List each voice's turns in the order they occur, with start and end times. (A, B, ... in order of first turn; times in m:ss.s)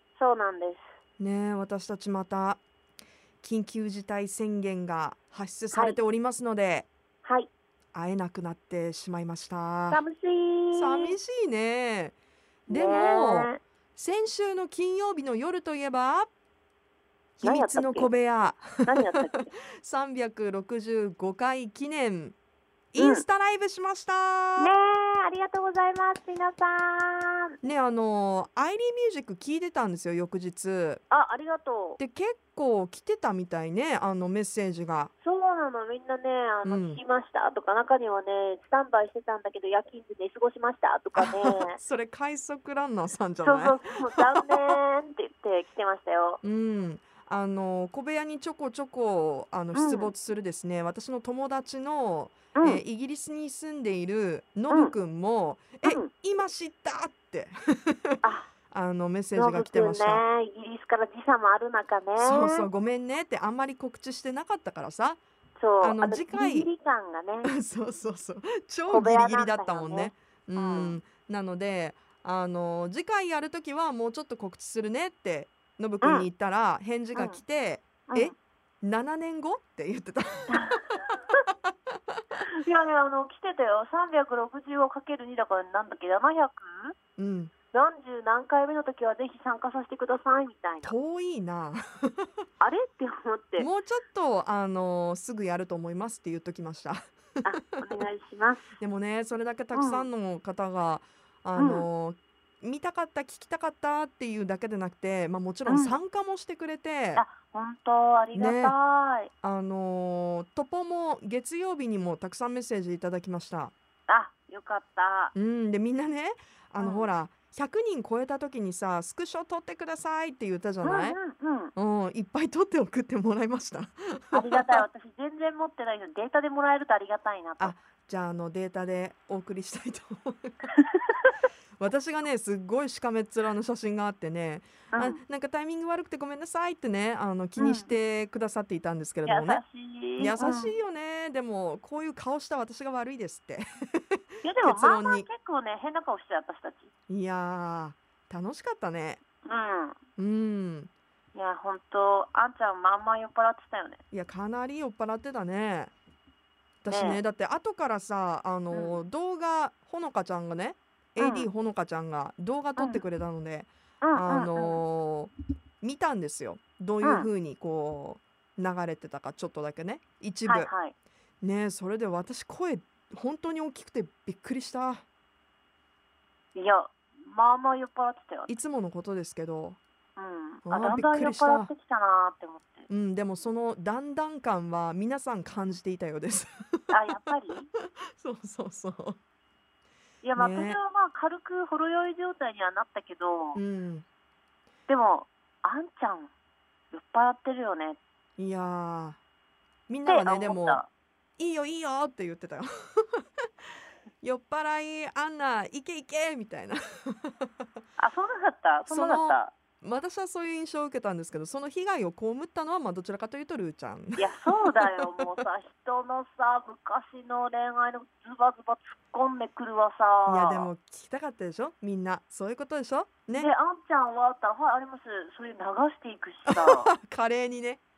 0:00.2-0:01.0 A
0:01.2-0:02.6 B
0:03.4-0:06.9 B
0:05.7-0:06.0 A
0:07.2-0:07.5 A
0:07.9-0:10.0 B
0:09.9-0:11.2 A
0:10.7-0:12.2 B
0:12.7-0:13.6 A
0:12.7-0:16.3 B
0:17.4-0:22.4 B
0:17.4-0:18.1 A
0:18.8-0:19.6 A
0:22.9-0:24.7 B
0:23.0-0:23.3 A
0:24.6-0:27.6 A
0:27.6-0:31.0 B
0:31.1-0:32.0 A
0:32.0-0:35.1 B
0:35.2-0:41.8 A
0:36.6-0:37.0 B
0:41.2-0:44.8 B
0:43.4-0:46.4 A
0:46.4-0:58.2 B
0:49.7-0:50.1 A
0:52.5-0:52.8 A
0:54.7-0:55.0 A
0:55.8-0:56.1 A
0:58.2-0:58.5 A
0:58.7-1:00.2 B
0:59.4-1:02.7 A
1:02.2-1:05.2 B
1:05.6-1:07.5 A
1:05.8-1:06.7 B
1:07.4-1:21.0 B
1:08.9-1:11.0 A
1:16.0-1:16.3 A
1:17.1-1:17.4 A
1:18.1-1:18.3 A
1:20.5-1:21.4 A
1:22.4-1:26.9 A
1:27.2-1:27.5 B
1:27.7-1:31.0 A
1:30.8-1:32.3 B
1:32.6-1:33.7 A
1:33.6-1:37.1 B
1:37.4-1:38.8 A
1:38.8-1:47.2 B
1:39.7-1:40.1 A
1:41.6-1:41.9 A
1:45.7-1:46.0 A
1:47.2-1:49.3 A
1:48.4-1:48.8 B
1:49.4-1:53.7 B
1:54.1-1:55.4 A
1:55.4-2:01.2 B
1:56.8-1:57.1 A
2:00.8-2:01.7 A
2:01.8-2:04.8 B
2:04.3-2:07.8 A
2:07.6-2:10.7 B
2:10.8-2:11.3 A
2:11.8-2:19.6 B
2:14.9-2:15.2 A
2:17.6-2:18.0 A
2:19.3-2:20.8 A
2:20.2-2:25.3 B
2:24.4-2:26.9 A
2:27.1-2:29.2 B
2:29.4-2:30.0 A
2:30.2-2:30.9 B
2:31.3-2:34.0 A
2:34.1-2:35.9 B
2:36.8-2:50.7 B
2:36.9-2:37.2 A
2:38.7-2:39.0 A
2:41.2-2:41.5 A
2:42.8-2:43.0 A
2:44.0-2:44.8 A
2:47.0-2:47.3 A
2:50.5-2:50.9 A
2:51.4-2:55.0 B
2:56.6-2:58.5 A
2:58.5-2:59.8 B
3:00.2-3:02.9 A
3:00.7-3:01.7 B
3:02.9-3:07.4 B
3:06.9-3:07.7 A
3:08.2-3:09.2 B
3:10.2-3:13.6 A
3:10.4-3:10.8 B
3:13.6-3:14.0 B
3:14.9-3:16.3 A
3:16.9-3:18.0 A
3:18.4-3:19.2 B
3:19.9-3:20.8 B
3:20.1-3:20.9 A
3:21.4-3:23.2 B
3:24.2-3:27.5 B
3:28.0-3:29.5 A
3:28.9-3:35.3 B
3:34.2-3:40.7 A
3:40.3-3:43.5 B
3:43.3-3:46.9 A
3:46.5-3:47.8 B